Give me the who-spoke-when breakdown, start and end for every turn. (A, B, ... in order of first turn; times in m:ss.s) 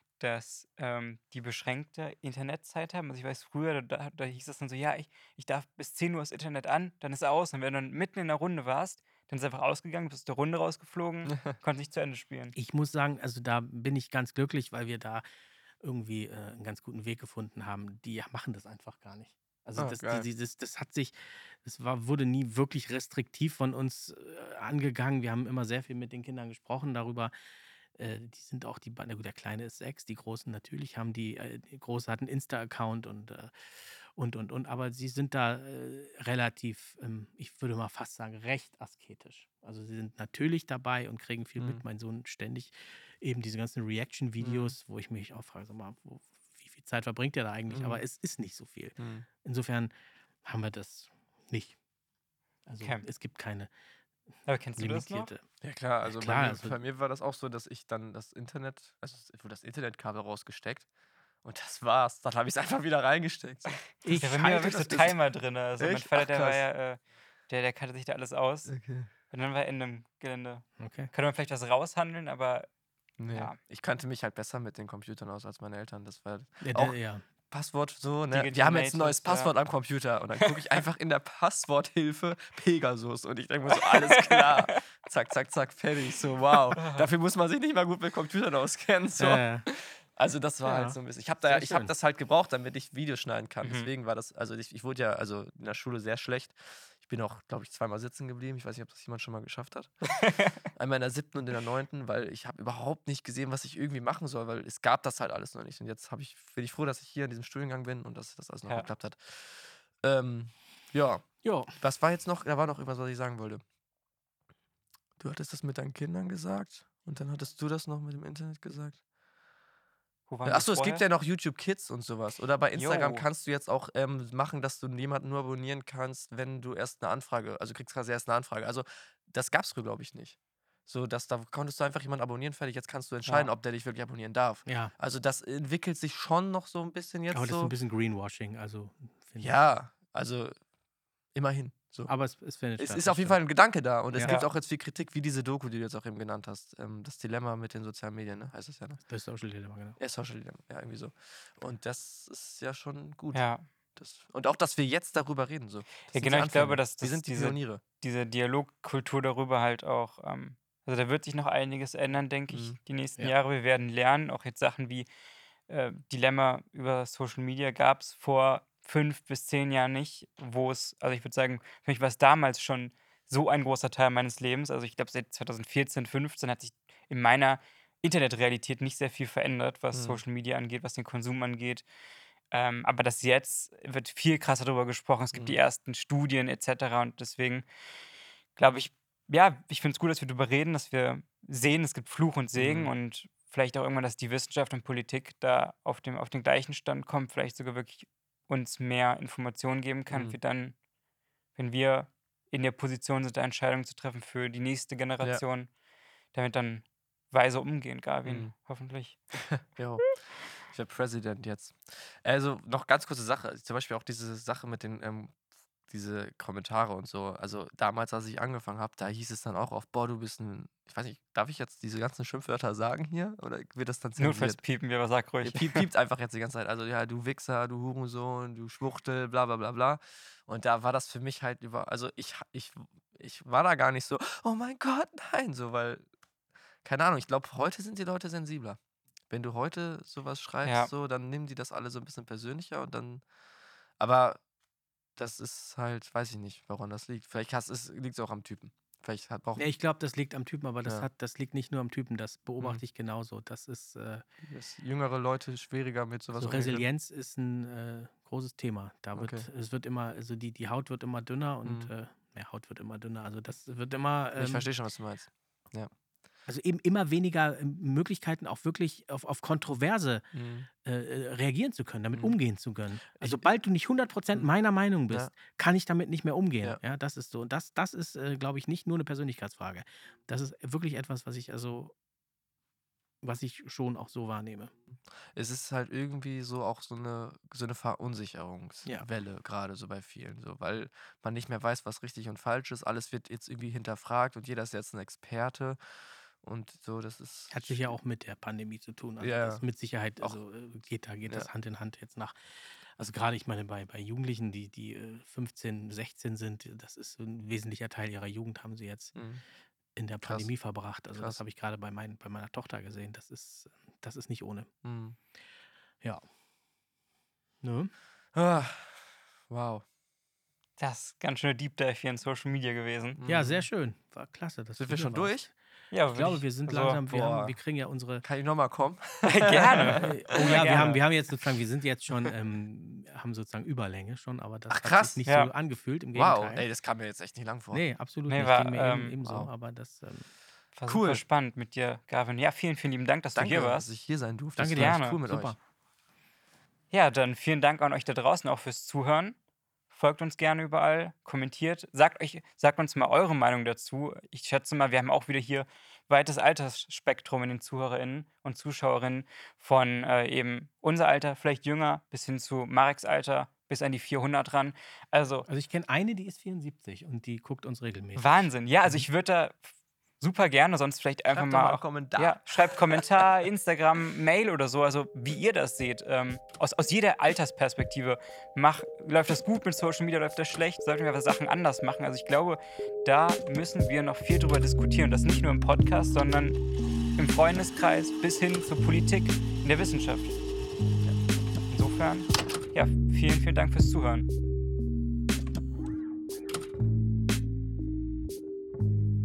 0:00.2-0:12.6 A
0:11.3-0:11.6 B
0:12.6-0:15.2 C
0:15.8-0:27.3 C
0:19.8-0:20.3 B
0:28.0-0:49.9 C
0:41.6-0:41.8 B
0:44.4-0:44.7 B
0:47.7-0:48.0 B
0:49.0-0:49.3 B
0:50.4-0:51.8 C
0:52.7-0:53.7 C
0:54.5-0:55.3 A
0:54.8-0:55.4 C
0:55.6-1:00.9 B
0:56.1-0:56.8 C
1:01.4-1:05.2 B
1:04.0-1:05.0 C
1:04.2-1:08.7 A
1:05.8-1:06.6 B
1:08.7-1:09.1 B
1:09.3-1:12.7 A
1:10.8-1:11.1 C
1:13.2-1:17.0 B
1:13.3-1:13.6 A
1:16.6-1:17.2 C
1:17.5-1:39.9 B
1:18.3-1:19.5 A
1:23.7-1:24.8 A
1:26.8-1:27.0 A
1:29.2-1:29.7 C
1:30.6-1:31.9 C
1:33.6-1:33.9 A
1:40.2-1:40.6 A
1:40.7-1:51.3 B
1:51.4-1:51.8 C
1:51.8-1:53.6 B
1:55.2-1:59.0 B
2:00.3-2:01.0 A
2:00.4-2:17.7 B
2:02.8-2:03.2 A
2:14.7-2:14.9 C
2:17.3-2:19.6 C
2:19.4-2:20.6 B
2:21.4-2:22.1 B
2:22.1-2:23.4 C
2:22.8-2:29.0 B
2:24.1-2:24.4 C
2:29.1-2:30.0 C
2:30.0-2:33.4 B
2:33.3-2:33.6 A
2:34.0-2:37.8 B
2:36.1-2:45.1 A
2:42.5-2:42.8 B
2:45.7-3:01.8 A
2:59.9-3:00.2 B
3:02.5-3:07.6 A
3:05.3-3:05.6 B
3:08.6-3:20.8 A
3:12.6-3:12.9 B
3:20.1-3:20.4 B
3:21.6-3:25.7 A
3:26.3-3:29.6 A
3:28.2-3:28.5 B
3:29.7-3:30.1 B
3:30.6-3:35.4 B
3:35.9-3:44.6 B
3:44.2-3:45.9 A
3:45.4-3:56.1 B
3:56.8-3:58.8 B
3:59.3-4:03.2 B
4:00.6-4:00.9 A
4:04.0-4:04.4 B
4:05.2-4:09.6 B
4:09.6-4:14.2 C
4:14.5-4:16.9 B
4:16.3-4:24.7 C
4:19.2-4:19.5 B
4:21.6-4:21.9 B
4:24.4-4:25.9 B
4:26.5-4:30.2 C
4:30.3-4:30.7 B
4:30.8-4:41.9 C
4:33.2-4:33.4 B
4:43.2-4:44.7 C
4:45.3-4:55.8 B
4:56.4-4:57.9 B
4:57.5-5:02.4 C
4:59.2-4:59.6 B
5:03.0-5:09.2 C
5:09.2-5:09.4 B
5:10.0-5:14.7 C
5:10.2-5:10.5 B
5:11.2-5:11.4 B
5:14.8-5:15.2 B
5:17.6-5:17.9 C
5:18.3-5:19.8 B
5:20.8-5:23.2 A
5:23.2-5:23.7 B
5:23.3-5:25.5 C
5:24.8-5:25.5 B
5:25.9-5:27.0 A
5:26.2-5:28.2 C
5:27.1-5:27.6 B
5:28.2-5:31.0 B
5:29.3-5:31.0 A
5:29.8-5:36.6 C
5:34.7-5:35.2 B
5:35.3-5:35.5 A
5:36.2-5:37.9 B
5:37.7-5:40.3 C
5:38.3-5:39.2 A
5:39.2-5:39.5 B
5:40.8-5:43.9 A
5:40.9-5:41.2 B
5:43.4-5:45.6 B
5:44.6-5:45.6 C
5:44.7-5:45.2 A
5:46.9-5:49.4 A
5:49.9-6:05.5 A
6:05.5-6:08.5 C
6:08.2-6:09.6 A
6:10.2-6:26.6 A
6:11.3-6:13.3 B
6:27.2-6:30.4 A
6:31.7-6:34.3 A